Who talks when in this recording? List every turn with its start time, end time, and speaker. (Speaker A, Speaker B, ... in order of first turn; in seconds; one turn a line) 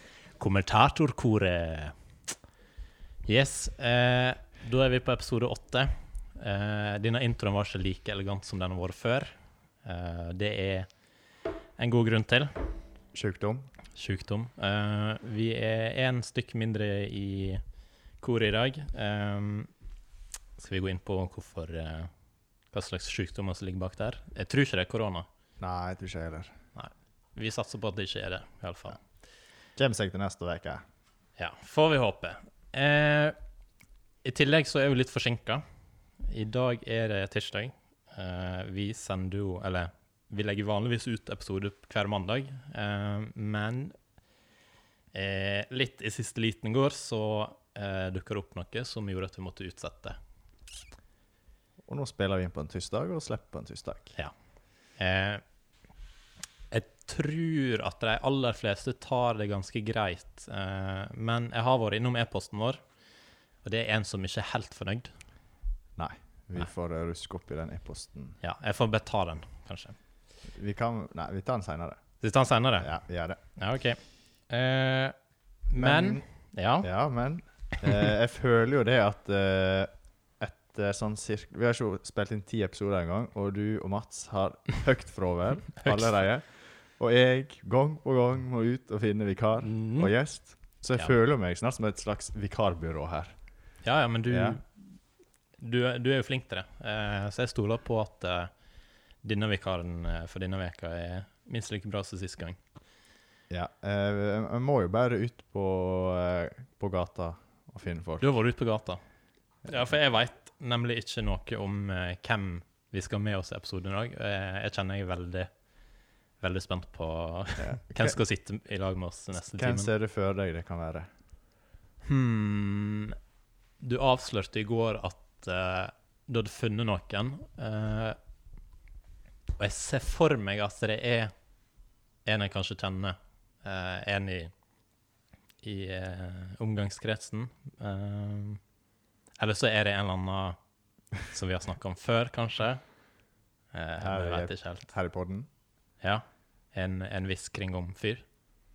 Speaker A: 0.4-1.9
Speaker A: 3.2-10.9
Speaker A: 11.8-12.5
Speaker B: 13.1-13.7
Speaker A: 13.9-17.6
Speaker A: 18.2-19.7
Speaker A: 20.6-22.1
Speaker A: 22.7-25.3
Speaker B: 25.6-26.5
Speaker A: 26.8-29.0
Speaker B: 29.8-30.8
Speaker A: 31.4-33.4
Speaker A: 34.2-35.6
Speaker A: 36.2-44.0
Speaker A: 45.1-50.2
Speaker B: 51.9-54.1
Speaker A: 55.0-55.4
Speaker A: 56.7-62.8
Speaker A: 63.6-65.1
Speaker B: 66.0-68.4
Speaker A: 68.4-70.0
Speaker B: 70.5-72.0
Speaker A: 72.2-72.9
Speaker B: 72.8-73.4
Speaker A: 73.5-75.2
Speaker A: 75.7-76.9
Speaker B: 75.8-76.2
Speaker B: 76.8-93.3
Speaker A: 85.8-86.2
Speaker A: 89.6-90.1
Speaker A: 93.8-94.8
Speaker B: 94.3-94.6
Speaker A: 95.6-98.5
Speaker A: 99.2-102.6
Speaker B: 103.5-108.2
Speaker A: 108.2-109.0
Speaker A: 109.6-115.5
Speaker A: 116.4-119.9
Speaker B: 117.6-118.2
Speaker B: 119.3-121.1
Speaker A: 122.0-123.2
Speaker A: 123.8-128.2
Speaker A: 129.6-131.3
Speaker A: 132.2-134.5
Speaker A: 135.6-138.6
Speaker A: 139.4-140.6
Speaker A: 141.2-142.8
Speaker A: 143.7-144.9
Speaker B: 144.0-145.5
Speaker A: 146.0-148.2